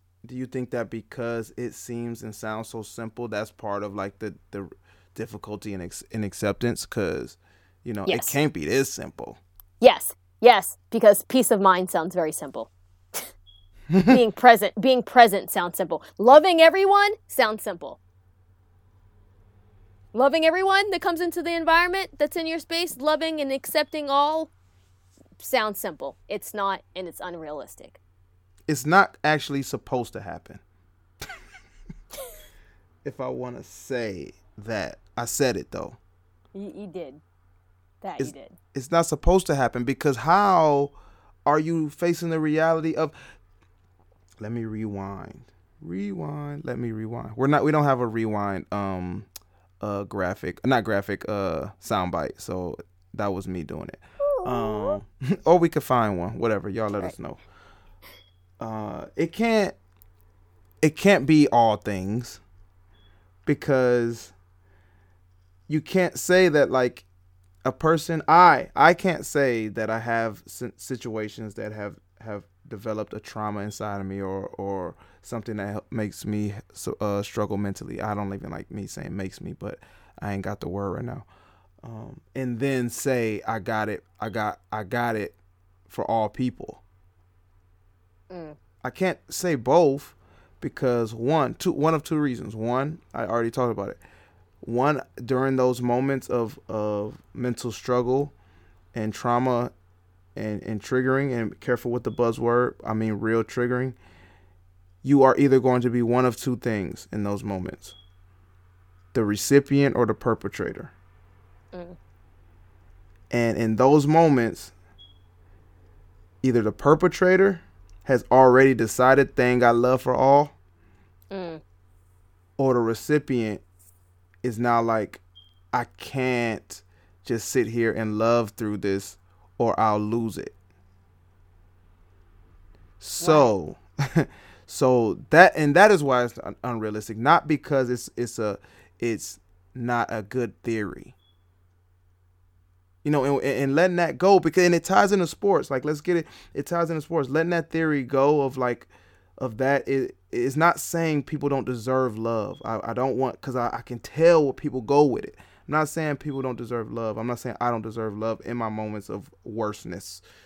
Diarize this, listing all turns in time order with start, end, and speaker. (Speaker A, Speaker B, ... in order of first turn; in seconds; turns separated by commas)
Speaker A: 0.2-9.4, Speaker B: 8.1-8.4, Speaker B: 9.8-13.3, Speaker A: 13.9-14.2, Speaker B: 14.1-18.0, Speaker B: 20.1-24.5, Speaker B: 25.4-28.0, Speaker A: 28.7-30.6, Speaker A: 33.0-36.0, Speaker B: 36.5-37.2, Speaker B: 38.0-38.6, Speaker A: 38.2-43.1, Speaker A: 44.4-49.3, Speaker A: 49.8-57.4, Speaker B: 54.2-55.0, Speaker A: 58.6-59.8, Speaker A: 60.8-62.4, Speaker A: 63.5-64.3, Speaker A: 65.7-67.0, Speaker A: 67.6-81.3, Speaker A: 81.8-85.4, Speaker A: 85.9-86.8, Speaker B: 88.3-88.6, Speaker A: 88.8-94.0, Speaker A: 94.6-98.3, Speaker A: 98.9-99.7, Speaker A: 100.3-104.0, Speaker A: 105.0-107.9, Speaker A: 109.1-110.9, Speaker A: 113.3-114.7, Speaker A: 116.4-120.5, Speaker B: 121.3-121.6, Speaker A: 122.6-123.6, Speaker A: 124.4-125.2, Speaker A: 125.7-130.5, Speaker A: 133.0-141.1, Speaker B: 133.2-133.5, Speaker A: 143.0-160.2